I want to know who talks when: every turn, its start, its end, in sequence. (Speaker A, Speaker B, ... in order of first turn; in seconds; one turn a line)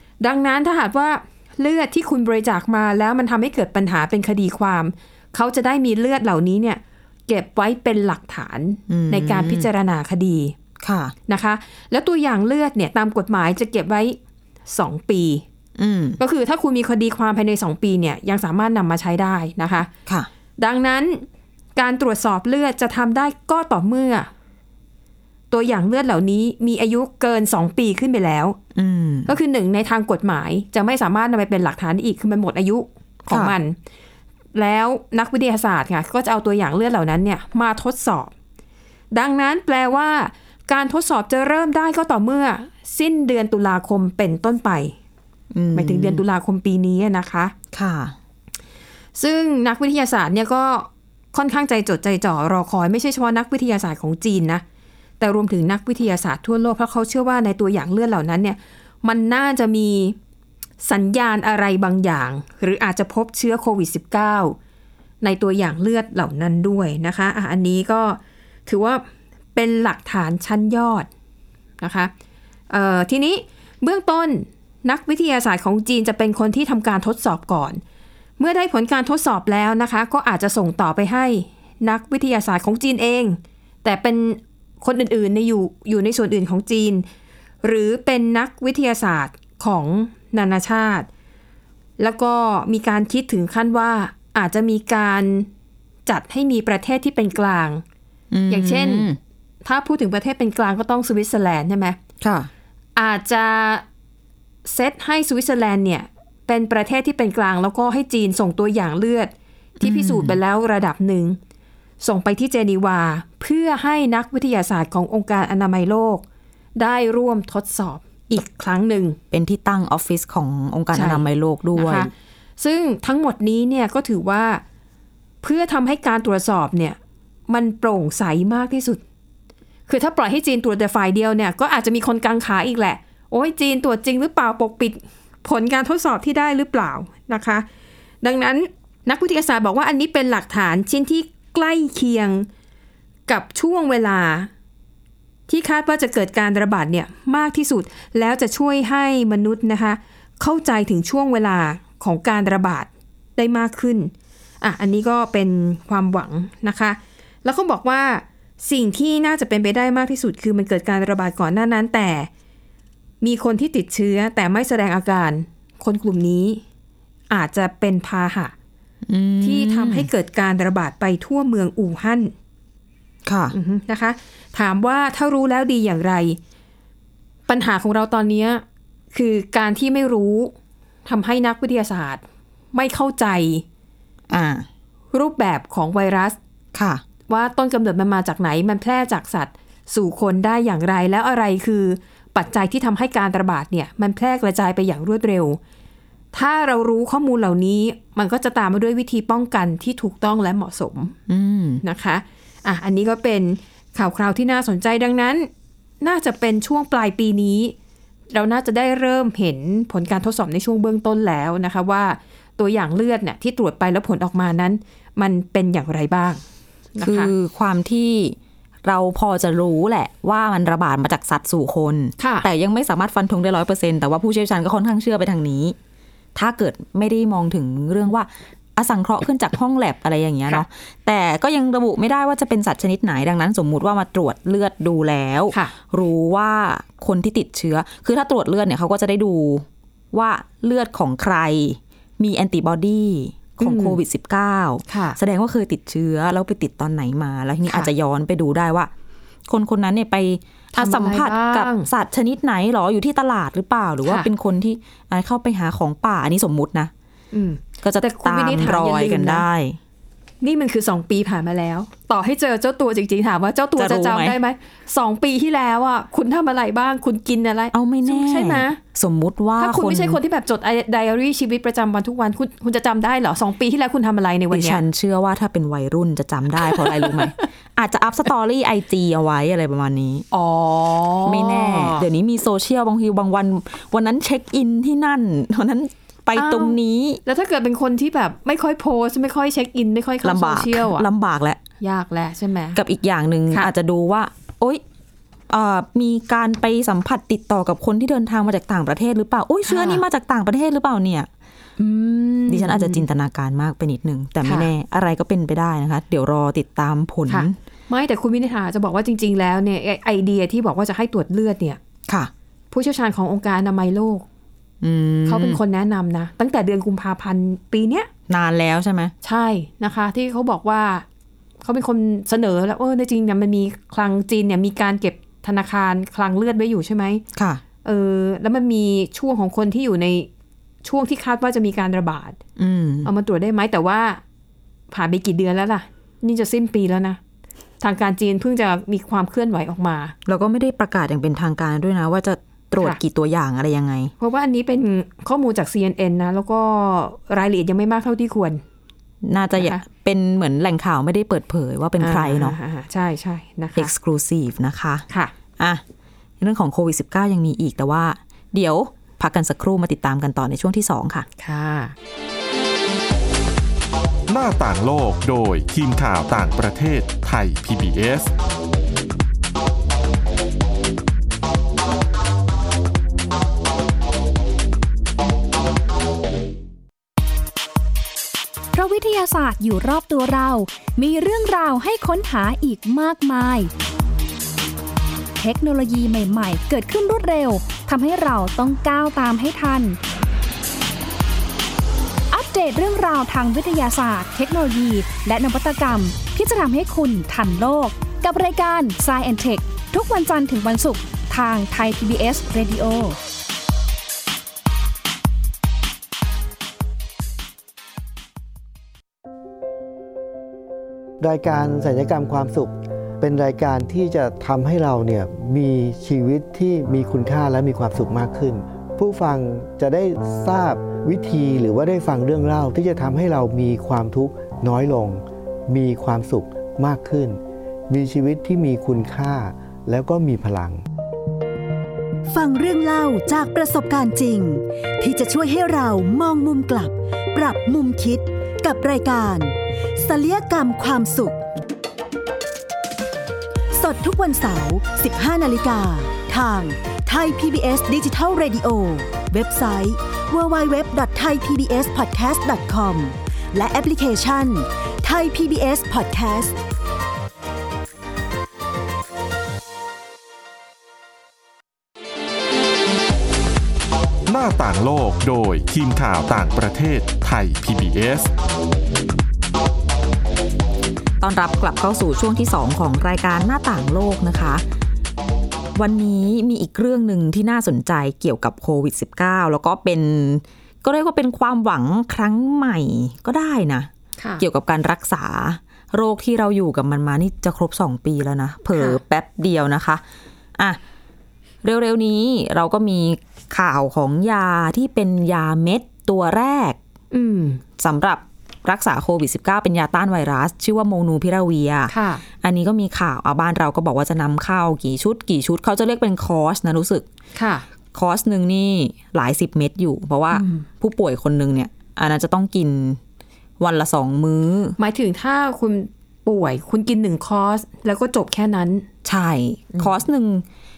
Speaker A: 0.2-10.5
Speaker B: 8.9-9.7
Speaker B: 10.8-11.1
Speaker A: 11.3-14.2
Speaker A: 14.7-15.4
Speaker B: 15.8-16.2
Speaker A: 16.2-19.9
Speaker A: 20.6-21.2
Speaker A: 21.8-24.3
Speaker A: 25.5-28.6
Speaker B: 28.8-29.3
Speaker A: 29.2-33.8
Speaker A: 34.5-38.3
Speaker A: 39.1-44.9
Speaker B: 45.5-46.2
Speaker A: 45.7-47.5
Speaker B: 47.7-48.1
Speaker A: 49.1-54.6
Speaker A: 55.2-60.1
Speaker A: 60.8-64.5
Speaker A: 65.2-69.0
Speaker A: 69.5-71.1
Speaker A: 71.8-72.1
Speaker A: 72.7-77.8
Speaker A: 78.4-87.0
Speaker A: 87.6-91.1
Speaker A: 92.0-95.5
Speaker A: 96.0-97.8
Speaker B: 98.3-99.2
Speaker A: 98.5-99.1
Speaker A: 99.6-102.0
Speaker B: 102.2-102.5
Speaker A: 103.0-103.8
Speaker A: 104.6-111.4
Speaker B: 109.8-110.4
Speaker A: 112.0-116.2
Speaker A: 116.8-119.2
Speaker B: 119.3-122.1
Speaker A: 120.9-124.6
Speaker A: 125.4-127.0
Speaker A: 127.5-129.0
Speaker A: 129.9-137.7
Speaker A: 138.2-142.5
Speaker A: 143.3-144.5
Speaker A: 145.5-162.3
Speaker A: 163.2-166.6
Speaker A: 167.3-168.5
Speaker B: 169.1-170.1
Speaker A: 169.4-172.3
Speaker B: 173.2-173.5
Speaker A: 173.5-176.4
Speaker A: 177.5-180.5
Speaker A: 181.1-182.2
Speaker A: 182.7-183.6
Speaker B: 184.3-184.7
Speaker A: 185.1-186.4
Speaker B: 186.7-187.0
Speaker A: 187.3-195.6
Speaker A: 196.3-201.1
Speaker B: 201.3-201.8
Speaker A: 201.8-205.5
Speaker A: 206.0-207.7
Speaker A: 208.3-216.4
Speaker A: 216.9-217.3
Speaker B: 217.0-225.8
Speaker A: 222.2-222.5
Speaker B: 226.3-248.9
Speaker A: 243.6-244.0
Speaker A: 244.9-245.2
Speaker B: 249.5-256.9
Speaker A: 250.7-251.9
Speaker A: 257.3-259.4
Speaker B: 257.8-259.8
Speaker A: 260.4-268.8
Speaker B: 263.8-264.4
Speaker B: 267.7-270.2
Speaker A: 269.6-274.8
Speaker B: 274.5-280.2
Speaker A: 276.6-277.3
Speaker A: 280.3-282.1
Speaker B: 281.2-287.2
Speaker A: 286.3-291.1
Speaker B: 290.2-291.6
Speaker A: 291.8-292.8
Speaker B: 292.8-294.8
Speaker B: 295.5-301.3
Speaker A: 299.7-300.0
Speaker A: 301.8-303.0
Speaker B: 302.5-307.5
Speaker A: 304.4-304.7
Speaker A: 307.3-311.8
Speaker A: 312.7-314.2
Speaker B: 314.8-315.6
Speaker A: 315.2-318.1
Speaker B: 318.3-319.1
Speaker A: 319.2-321.0
Speaker A: 321.6-327.2
Speaker B: 327.4-327.6
Speaker A: 327.8-330.3
Speaker A: 330.8-332.4
Speaker B: 332.6-333.1
Speaker A: 333.0-334.2
Speaker A: 334.9-337.2
Speaker A: 337.8-340.1
Speaker B: 340.2-344.1
Speaker A: 344.2-348.6
Speaker B: 349.2-352.5
Speaker A: 349.6-349.8
Speaker A: 352.0-353.9
Speaker B: 353.8-355.1
Speaker B: 356.4-361.3
Speaker A: 361.4-361.9
Speaker C: 364.3-368.3
Speaker D: 378.7-383.7
Speaker D: 385.4-390.0
Speaker D: 392.3-403.2
Speaker E: 411.2-430.8
Speaker F: 432.3-441.4
Speaker F: 443.7-456.6
Speaker C: 464.3-468.3
Speaker B: 471.2-474.6
Speaker B: 475.8-483.9
Speaker B: 484.4-490.0
Speaker A: 488.7-489.0
Speaker B: 491.6-496.8
Speaker A: 497.1-497.6
Speaker B: 497.8-507.1
Speaker A: 501.9-502.2
Speaker A: 507.3-507.6
Speaker B: 507.9-513.0
Speaker A: 510.3-510.6
Speaker B: 513.6-514.8
Speaker A: 514.8-518.9
Speaker B: 519.0-520.4